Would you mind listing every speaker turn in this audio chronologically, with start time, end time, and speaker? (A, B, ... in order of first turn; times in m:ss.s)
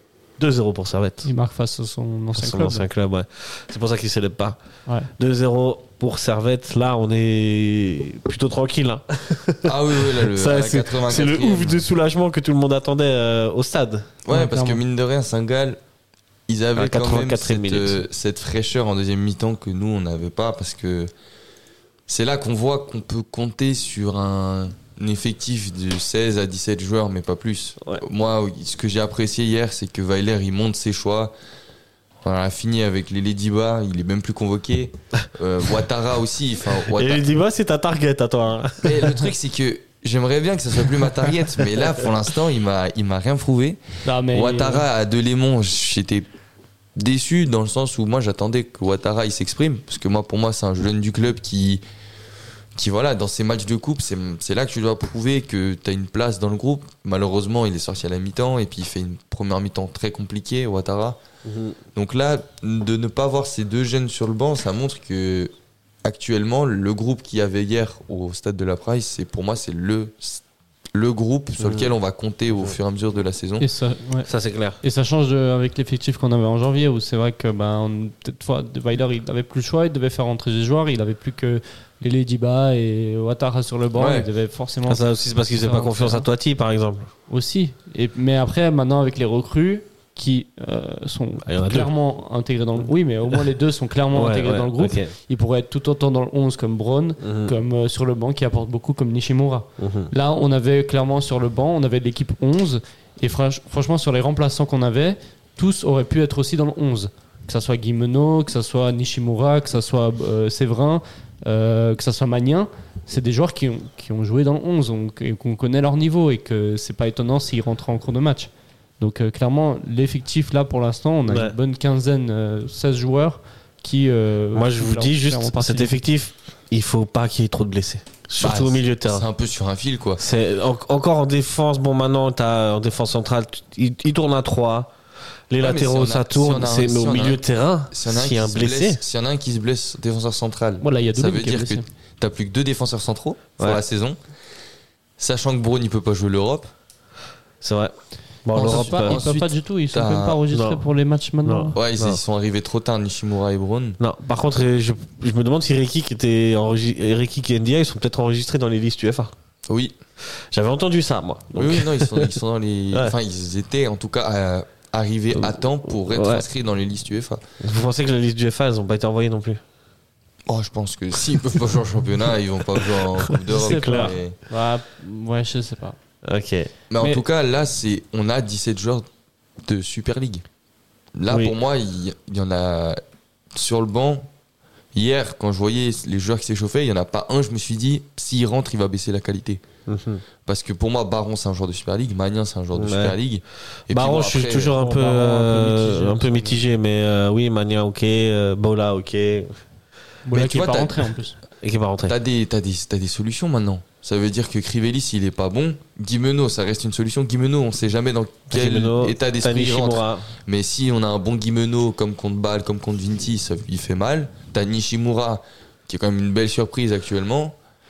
0:00.4-0:01.3 A
0:01.2-0:02.9 B
0:02.4-0:04.6 A
0:05.2-0:14.1 A
0:09.6-0:11.8 C
0:14.2-0:15.8 C
0:14.3-0:14.8 B
0:16.5-0:21.1 C
0:16.8-0:18.0 A
0:22.1-0:31.3 C
0:32.2-0:37.2 C
0:36.9-0:39.3 A
0:38.8-0:46.3 C
0:41.0-0:42.1 A
0:44.0-0:44.9 B
0:47.0-0:51.8 C
0:52.8-1:01.2 C
1:01.4-1:01.8 A
1:02.0-1:05.5 C
1:06.0-1:10.4 C
1:10.9-1:13.7 C
1:11.6-1:11.9 A
1:13.6-1:14.3 B
1:14.3-1:14.8 A
1:14.8-1:26.3 B
1:24.0-1:24.3 C
1:24.9-1:27.1 A
1:27.3-2:06.0 B
1:31.5-1:31.9 A
1:34.1-1:35.1 A
1:37.2-1:37.6 A
1:39.8-1:40.1 A
2:01.3-2:01.6 A
2:04.6-2:09.3 A
2:08.4-2:10.2 C
2:10.2-2:14.9 A
2:15.5-2:19.0 A
2:15.6-2:24.2 C
2:20.8-2:21.8 B
2:25.2-2:26.7 C
2:27.6-2:27.9 A
2:28.4-2:29.2 A
2:28.5-2:30.4 C
2:28.6-2:31.8 B
2:30.5-2:30.8 A
2:31.4-2:32.2 A
2:31.8-2:34.0 C
2:34.0-2:39.3 A
2:39.7-2:40.0 C
2:40.2-2:42.4 A
2:41.6-2:47.4 C
2:46.1-2:46.5 A
2:47.6-2:49.6 A
2:50.5-2:54.4 C
2:52.8-2:54.2 A
2:53.5-2:56.0 B
2:56.2-2:56.7 A
2:56.9-2:59.0 C
2:59.6-3:00.4 C
3:01.2-3:03.0 C
3:01.3-3:01.6 A
3:03.5-3:04.3 C
3:04.9-3:09.6 C
3:09.9-3:10.2 A
3:10.5-3:14.8 C
3:12.8-3:13.2 A
3:13.9-3:19.5 A
3:14.8-3:16.6 B
3:20.2-3:21.4 B
3:20.3-3:21.1 C
3:21.6-3:22.2 A
3:22.1-3:37.6 C
3:28.5-3:30.3 A